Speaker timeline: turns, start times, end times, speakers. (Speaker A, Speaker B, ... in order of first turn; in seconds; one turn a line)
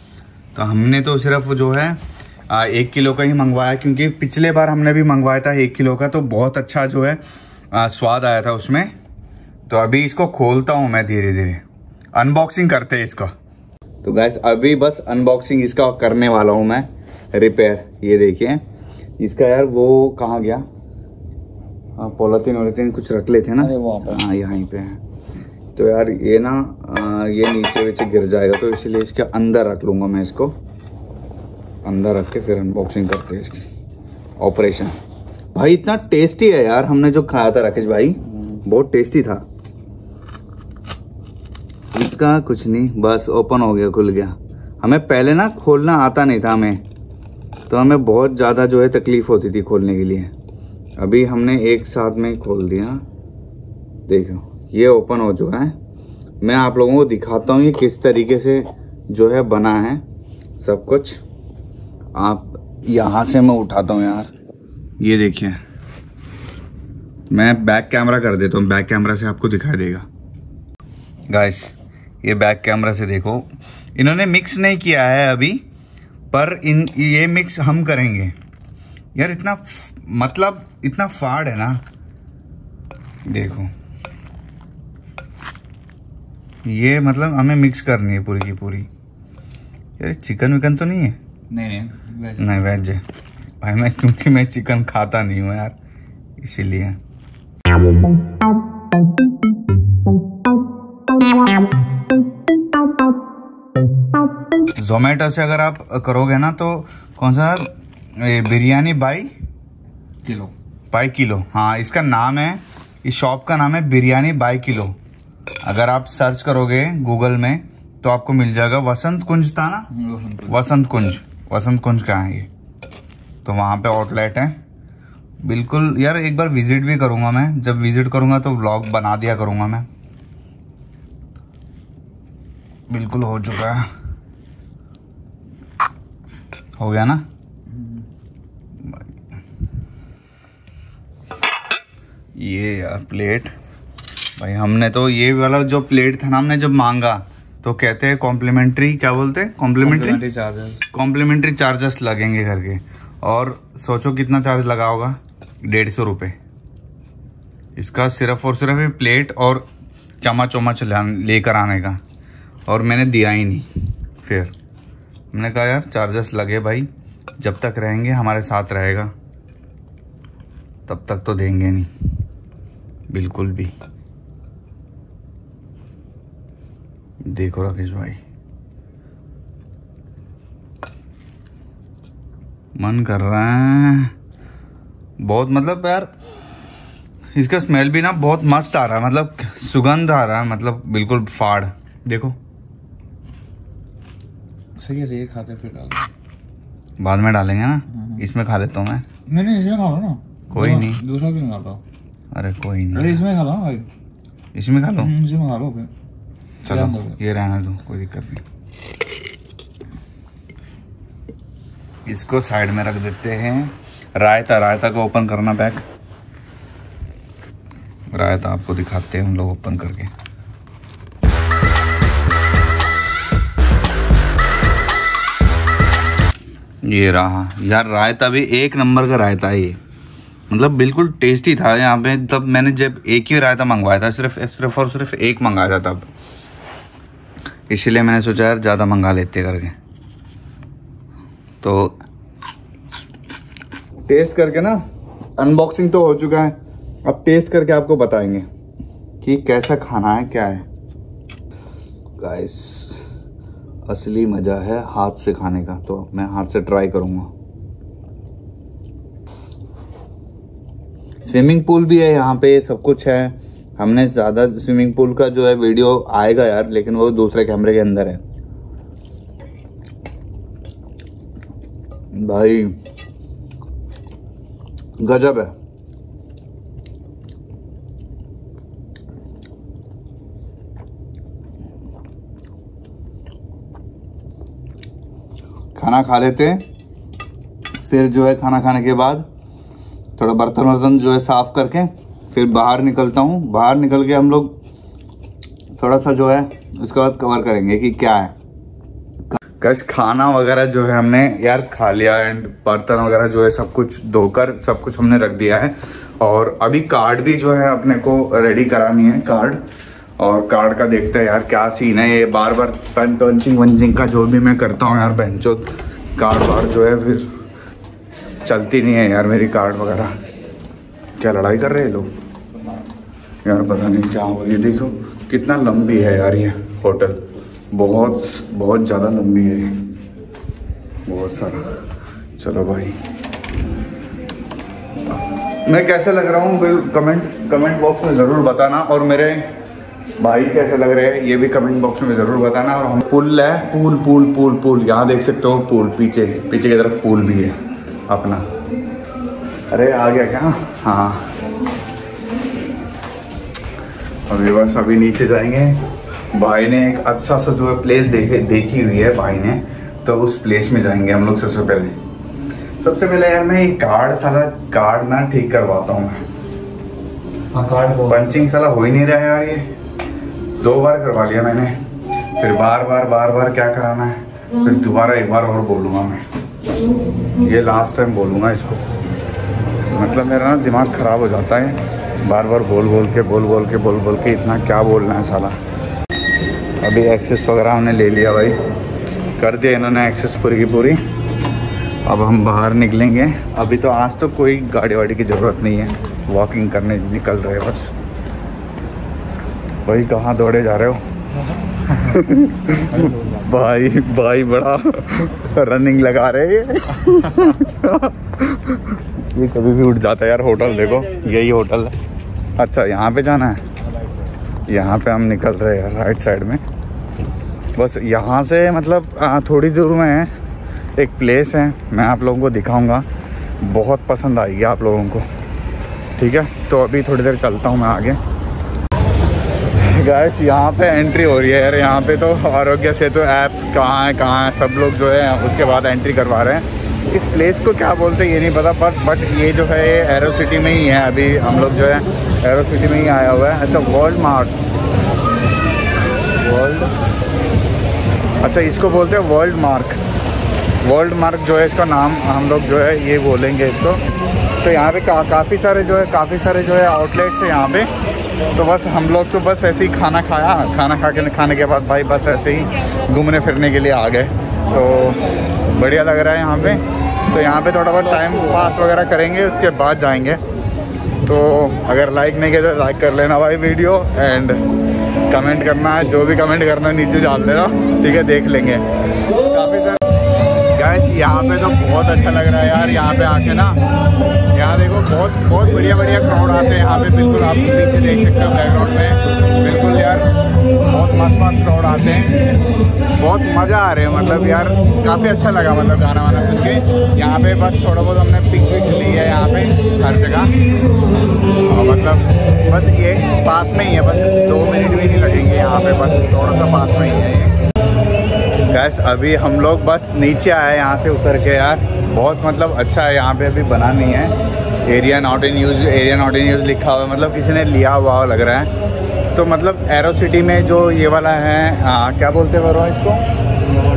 Speaker A: 0.5-7.2
Speaker A: 7.7-8.9
Speaker A: 9.7-11.6
Speaker A: 12.1-13.3
Speaker A: 14.0-18.6
Speaker A: 19.2-20.7
Speaker A: 22.0-25.0
Speaker B: 23.6-24.2
Speaker A: 25.8-30.6
Speaker A: 31.9-33.7
Speaker A: 34.4-35.0
Speaker A: 35.5-39.5
Speaker A: 41.9-46.8
Speaker A: 47.7-50.3
Speaker A: 51.0-53.0
Speaker A: 54.1-55.8
Speaker A: 56.4-60.0
Speaker A: 60.6-61.2
Speaker A: 62.1-64.3
Speaker A: 65.0-65.6
Speaker A: 67.3-70.1
Speaker A: 71.3-75.6
Speaker A: 76.3-78.3
Speaker A: 79.1-81.8
Speaker A: 83.3-83.7
Speaker A: 86.6-88.9
Speaker A: 90.0-91.2
Speaker B: 91.5-92.5
Speaker A: 92.4-93.0
Speaker A: 93.6-95.8
Speaker A: 96.4-97.0
Speaker A: 104.8-109.3
Speaker B: 110.2-110.5
Speaker A: 110.9-115.0
Speaker A: 115.6-119.9
Speaker B: 119.9-120.6
Speaker A: 120.5-122.5
Speaker A: 123.4-124.6
Speaker A: 125.4-129.9
Speaker A: 132.9-133.9
Speaker A: 136.8-137.2
Speaker A: 142.4-143.5
Speaker A: 144.4-150.2
Speaker B: 149.8-150.9
Speaker A: 150.9-156.4
Speaker A: 157.8-159.7
Speaker A: 160.2-162.0
Speaker A: 162.7-163.7
Speaker A: 164.2-164.5
Speaker A: 165.3-166.9
Speaker A: 167.4-169.1
Speaker A: 170.9-171.9
Speaker A: 173.1-173.7
Speaker A: 177.2-178.2
Speaker A: 182.8-184.1
Speaker A: 185.2-186.1
Speaker A: 187.3-192.4
Speaker B: 194.8-196.1
Speaker A: 197.0-199.1
Speaker B: 198.0-198.2
Speaker B: 199.2-201.8
Speaker A: 200.5-201.0
Speaker A: 202.3-203.2
Speaker B: 202.9-203.9
Speaker A: 204.5-205.1
Speaker B: 205.0-205.9
Speaker A: 206.6-208.4
Speaker B: 206.7-207.2
Speaker A: 212.1-215.8
Speaker A: 218.1-220.1
Speaker A: 226.8-229.8
Speaker A: 230.5-236.1
Speaker A: 237.7-239.8
Speaker A: 241.6-242.0
Speaker A: 244.1-244.8
Speaker A: 245.4-248.5
Speaker A: 249.2-250.6
Speaker A: 252.2-253.0
Speaker A: 253.9-257.3
Speaker A: 261.2-268.2
Speaker A: 272.1-272.8
Speaker A: 275.0-275.5
Speaker A: 285.8-286.6
Speaker A: 287.9-289.2
Speaker A: 290.2-294.5
Speaker A: 295.8-298.3
Speaker A: 299.4-309.6
Speaker A: 310.2-317.3
Speaker A: 318.4-320.1
Speaker A: 321.2-322.2
Speaker A: 323.4-329.8
Speaker A: 331.1-331.8
Speaker A: 332.4-333.0
Speaker A: 335.6-339.5
Speaker A: 340.2-347.6
Speaker A: 348.1-348.5
Speaker A: 349.7-351.3
Speaker A: 354.3-355.8
Speaker A: 356.3-362.0
Speaker A: 362.8-366.2
Speaker B: 367.5-368.3
Speaker A: 368.0-369.7
Speaker A: 370.6-371.8
Speaker A: 372.4-376.2
Speaker A: 377.4-378.8
Speaker A: 379.9-385.5
Speaker A: 386.8-388.6
Speaker A: 389.4-391.0
Speaker A: 392.1-397.9
Speaker A: 399.9-401.0
Speaker A: 401.9-412.0
Speaker A: 412.6-413.6
Speaker A: 414.7-416.6
Speaker A: 417.8-420.3
Speaker A: 421.0-423.1
Speaker A: 423.6-425.3
Speaker A: 426.2-428.2
Speaker A: 429.8-444.5
Speaker A: 446.4-446.9
Speaker A: 448.4-450.0
Speaker A: 450.8-454.0
Speaker A: 454.6-457.9
Speaker A: 458.5-470.4
Speaker A: 471.2-474.6
Speaker A: 475.3-478.8
Speaker A: 479.4-480.0
Speaker A: 480.7-483.8
Speaker A: 484.5-490.3
Speaker A: 490.8-492.3
Speaker A: 493.2-500.5
Speaker A: 501.7-507.6
Speaker A: 508.7-514.3
Speaker A: 514.9-518.7
Speaker A: 519.3-523.2